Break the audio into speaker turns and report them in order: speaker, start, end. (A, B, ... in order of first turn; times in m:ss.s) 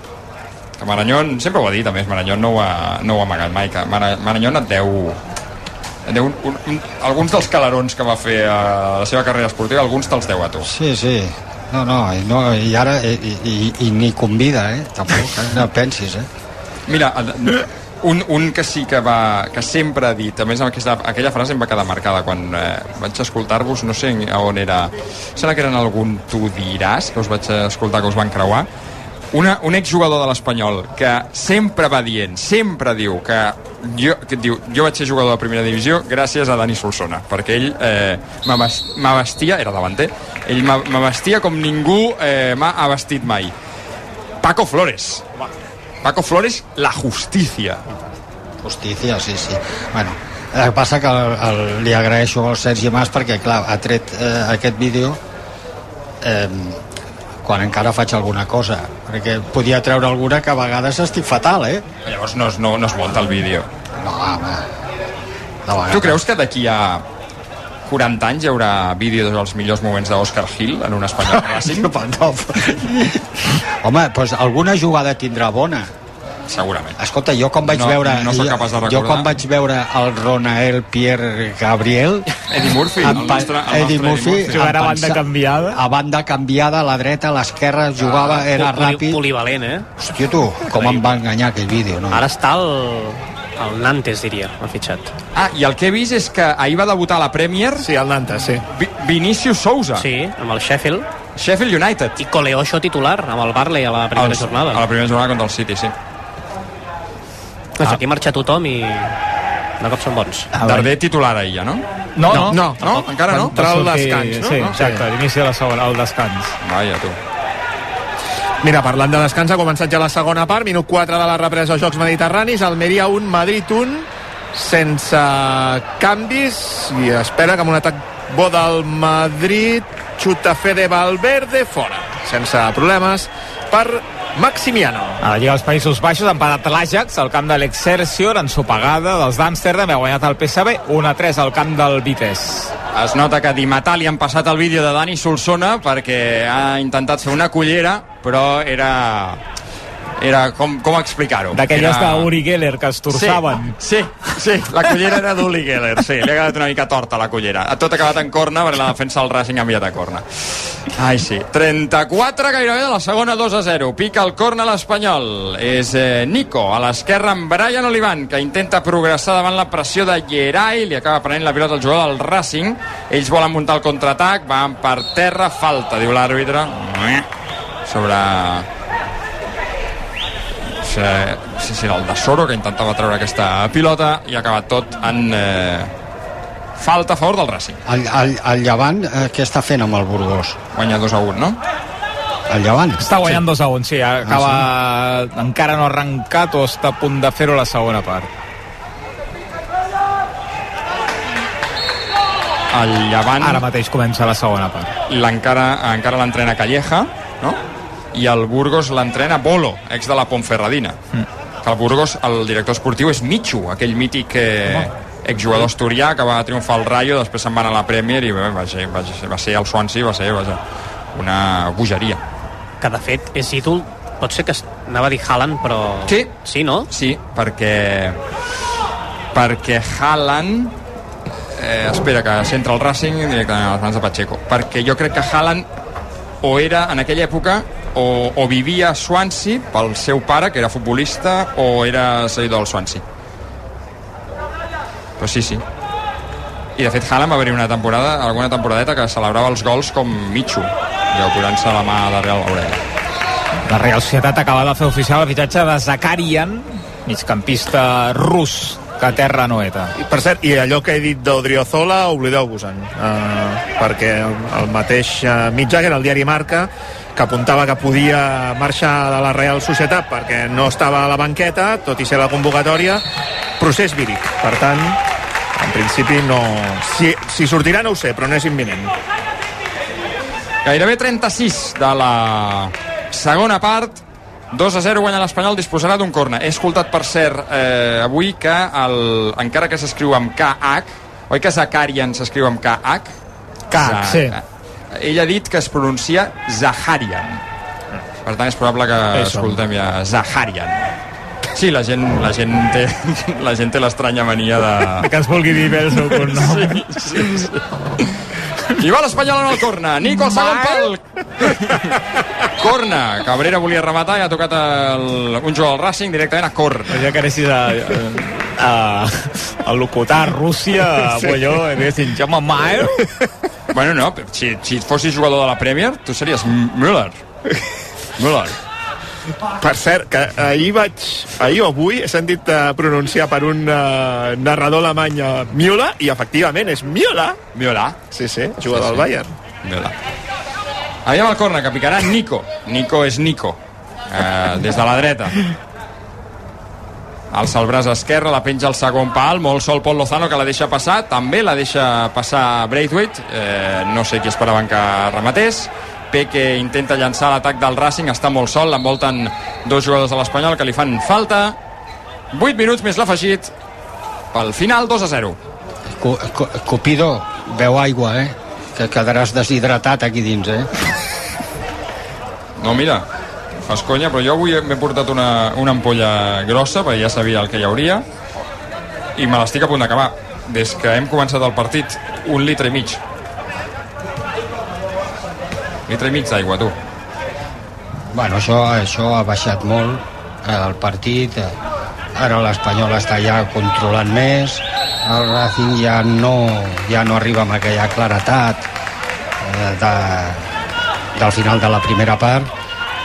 0:00.8-0:05.2 A
0:06.1-0:10.7 A
0:10.6-0:16.3 B
0:16.9-0:28.7 A
0:29.3-0:43.5 A
0:44.4-0:45.2 A
0:46.0-0:47.8 A
0:48.6-0:55.2 B
0:56.2-0:56.8 B
0:57.4-1:01.8 B
1:02.1-1:03.7 A
1:04.0-1:04.7 B
1:05.6-1:06.2 B
1:05.9-1:07.0 A
1:07.8-1:11.9 A
1:11.2-1:15.9 B
1:16.5-1:17.0 A
1:17.0-1:29.2 B
1:17.6-1:19.3 A
1:22.5-1:24.6 A
1:24.5-1:25.8 C
1:28.0-1:29.9 D
1:30.0-1:32.2 B
1:30.7-1:31.2 D
1:32.1-1:35.1 D
1:35.4-1:37.9 A
1:37.8-1:38.6 E
1:38.7-1:40.1 A
1:40.0-1:41.1 D
1:41.4-1:42.2 A
1:42.2-1:44.8 D
1:44.1-1:45.9 A
1:47.8-1:49.2 D
1:49.8-1:50.5 D
1:50.6-1:50.9 C
1:50.6-1:53.5 A
1:52.2-1:52.6 C
1:52.3-1:55.0 E
1:53.5-1:56.6 C
1:56.6-1:57.2 A
1:58.6-2:15.2 E
2:15.2-2:22.7 C
2:22.9-2:29.4 A
2:30.2-2:32.3 A
2:31.5-2:33.8 C
2:33.1-2:57.2 A
2:57.8-2:58.7 A
3:00.8-3:05.9 A
3:06.8-3:07.8 A
3:07.9-3:10.6 B
3:10.8-3:11.6 A
3:12.5-3:13.4 B
3:13.0-3:18.3 C
3:14.2-3:14.7 B
3:22.7-3:23.6 A
3:23.4-3:24.9 C
3:25.1-3:27.6 A
3:28.1-3:31.0 A
3:31.6-3:40.6 A
3:41.1-3:42.2 A
3:42.8-3:46.9 D
3:46.1-3:46.3 A
3:46.9-3:48.2 A
3:49.3-3:50.7 A
3:51.5-3:55.6 A
3:56.4-4:03.0 A
4:05.2-4:05.6 A
4:06.8-4:12.8 A
4:13.7-4:19.9 C
4:20.0-4:33.0 E
4:33.6-4:35.0 E
4:35.6-4:38.9 E
4:40.6-4:44.0 A
4:44.5-4:53.1 A
4:53.7-4:54.3 C
4:53.8-4:57.4 A
4:58.2-5:00.9 A
4:59.2-4:59.6 C
5:01.6-5:05.1 A
5:05.0-5:06.8 C
5:06.1-5:11.8 A
5:10.2-5:10.9 C
5:12.5-5:17.0 A
5:16.9-5:23.1 C
5:21.1-5:21.4 E
5:23.7-5:27.2 A
5:28.2-5:28.6 A
5:29.6-5:37.4 E
5:37.5-5:38.0 A
5:38.1-5:39.3 E
5:38.7-5:39.0 A
5:39.6-5:39.9 A
5:41.0-5:43.6 A
5:44.1-5:45.4 A
5:47.3-6:01.6 A
6:02.3-6:03.5 A
6:04.3-6:05.4 A
6:05.9-6:10.9 B
6:12.6-6:13.0 A
6:13.6-6:18.0 A
6:19.2-6:23.0 A
6:25.9-6:26.8 A
6:28.1-6:31.6 B
6:32.1-6:38.7 B
6:39.4-6:40.6 B
6:41.1-6:42.5 B